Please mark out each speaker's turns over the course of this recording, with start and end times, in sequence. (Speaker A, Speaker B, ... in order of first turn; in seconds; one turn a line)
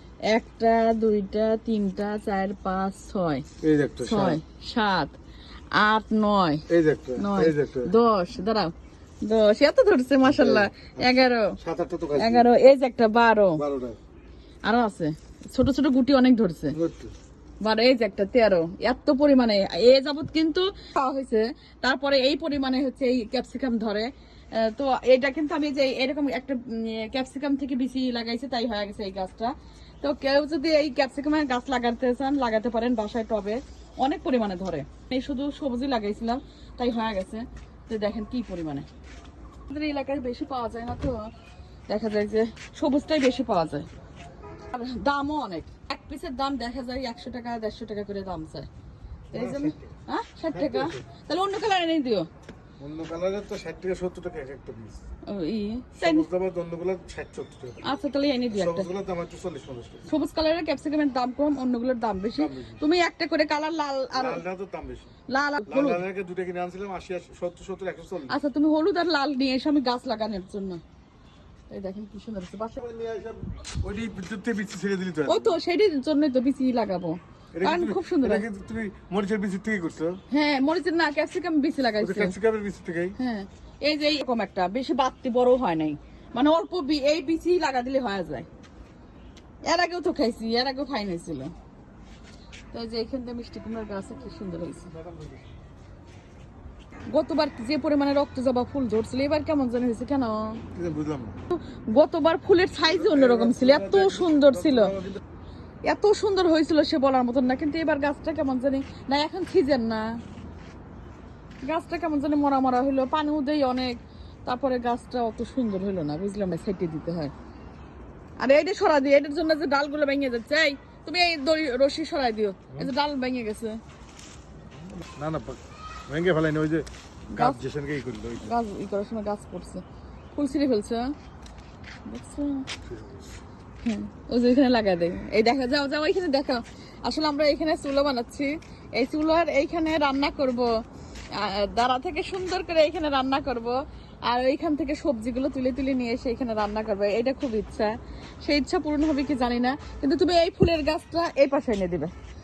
Speaker A: 0.3-3.4
Speaker B: 3.6-4.4
Speaker A: 4.0-5.2
Speaker A: 5.7-6.6
Speaker B: 6.7-7.9
Speaker A: 7.2-11.6
Speaker B: 10.2-11.0
Speaker B: 11.6-12.5
Speaker A: 12.1-13.6
Speaker B: 13.6-14.0
Speaker A: 14.6-16.7
Speaker B: 16.7-17.1
Speaker A: 17.6-38.9
Speaker A: 39.7-41.3
Speaker A: 41.9-43.9
Speaker A: 44.7-48.7
Speaker A: 49.3-52.3
Speaker B: 49.3-49.9
Speaker B: 50.5-51.0
Speaker B: 52.8-55.0
Speaker A: 55.2-56.2
Speaker B: 55.9-57.9
Speaker A: 57.8-58.9
Speaker B: 58.5-60.1
Speaker A: 60.1-64.4
Speaker B: 62.4-62.8
Speaker B: 64.1-65.1
Speaker A: 65.3-66.0
Speaker B: 65.7-68.4
Speaker A: 68.3-70.8
Speaker A: 71.7-72.8
Speaker B: 72.8-75.5
Speaker A: 75.2-78.5
Speaker B: 77.5-80.2
Speaker A: 80.3-82.3
Speaker B: 82.0-83.2
Speaker A: 83.2-88.5
Speaker A: 89.6-91.5
Speaker A: 92.7-94.9
Speaker B: 94.8-95.5
Speaker A: 97.1-100.6
Speaker B: 100.7-101.4
Speaker A: 101.5-104.9
Speaker B: 102.8-105.2
Speaker A: 105.8-110.2
Speaker A: 111.6-117.3
Speaker A: 118.4-123.8
Speaker B: 125.0-128.6
Speaker A: 127.3-127.6
Speaker A: 128.4-131.1
Speaker A: 132.1-132.7
Speaker B: 132.8-133.4
Speaker A: 133.8-152.1